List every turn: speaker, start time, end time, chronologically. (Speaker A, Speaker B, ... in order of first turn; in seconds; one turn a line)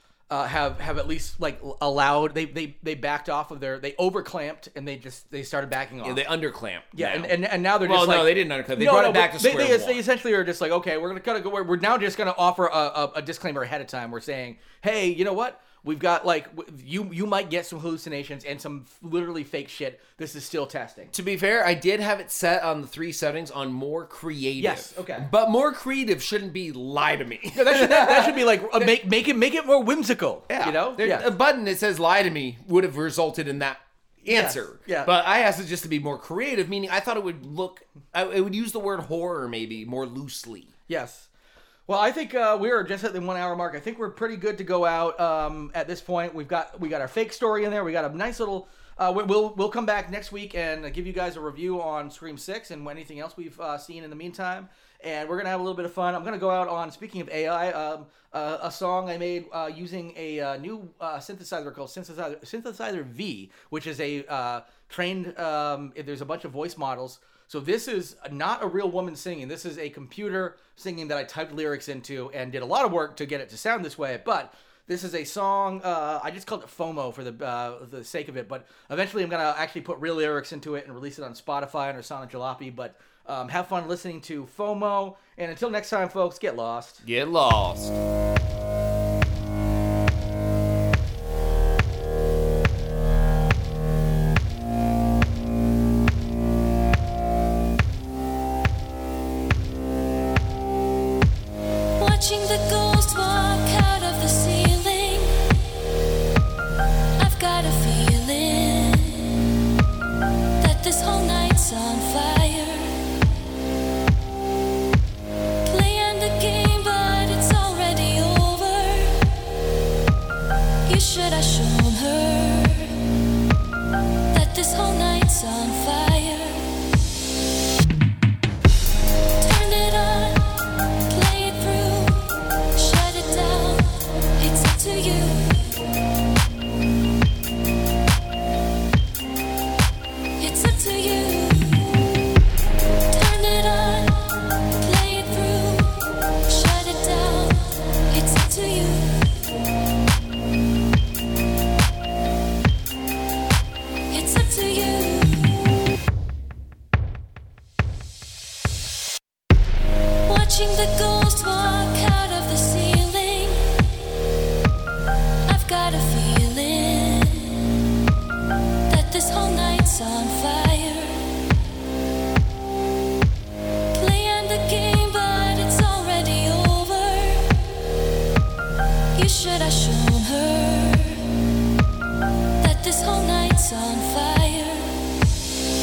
Speaker A: 0.3-6.2
Speaker B: 6.0-10.0
Speaker A: 6.9-21.1
Speaker B: 21.1-28.4
Speaker A: 24.6-25.3
Speaker A: 27.5-31.3
Speaker B: 30.5-40.7
Speaker A: 34.3-35.1
Speaker A: 40.9-41.3
Speaker A: 41.9-87.0
Speaker B: 87.0-88.0
Speaker C: 102.0-105.7
Speaker C: 107.2-109.5
Speaker C: 110.6-113.0
Speaker C: 115.7-119.4
Speaker C: 120.8-123.1
Speaker C: 124.3-126.7
Speaker C: 129.4-130.6
Speaker C: 131.1-135.9
Speaker C: 140.4-142.2
Speaker C: 143.1-149.3
Speaker C: 154.1-155.7
Speaker C: 160.3-163.9
Speaker C: 165.5-167.8
Speaker C: 168.9-171.3
Speaker C: 173.9-177.8
Speaker C: 179.1-181.3
Speaker C: 182.6-185.0